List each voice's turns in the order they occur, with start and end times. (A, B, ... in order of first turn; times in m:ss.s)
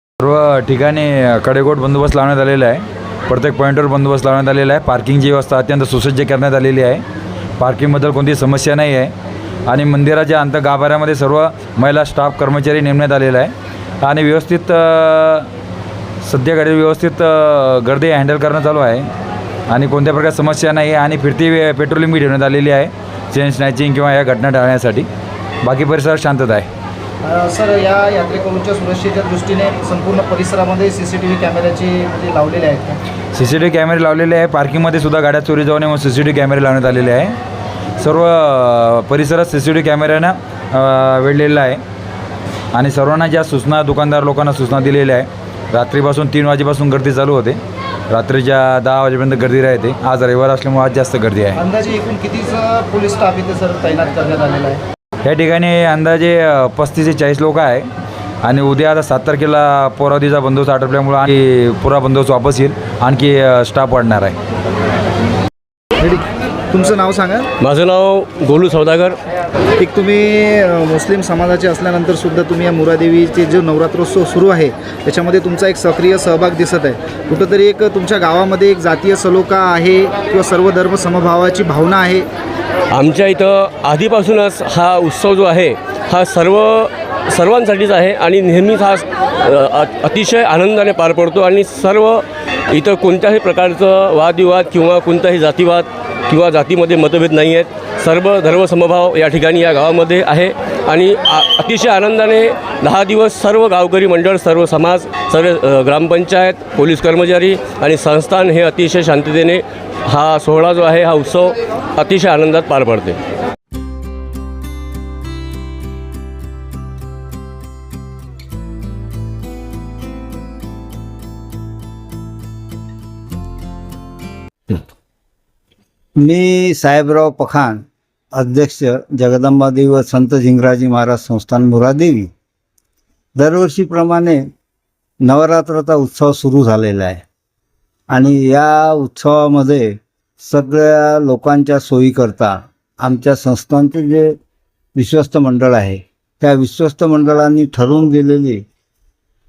0:00.2-0:07.0 A
0:07.6-0:09.1 A
0:09.7-0:15.5 A
0:16.2-0:19.1 A
0:19.7-0:25.1 A
0:25.6-0:26.7 A
0:27.2-0:33.0 B
0:33.3-0:37.4 A
0:38.0-0:41.8 A
0:42.7-0:51.6 A
0:51.6-0:54.8 B
0:55.2-0:57.9 A
0:58.4-1:04.4 A
1:06.0-1:07.5 B
1:07.6-1:09.2 C
1:09.8-1:22.3 B
1:22.9-1:53.2 C
2:06.2-2:12.3 D
2:13.4-2:14.5 D
2:15.2-2:17.2 D
2:18.1-2:24.4 D
2:25.0-2:28.6 D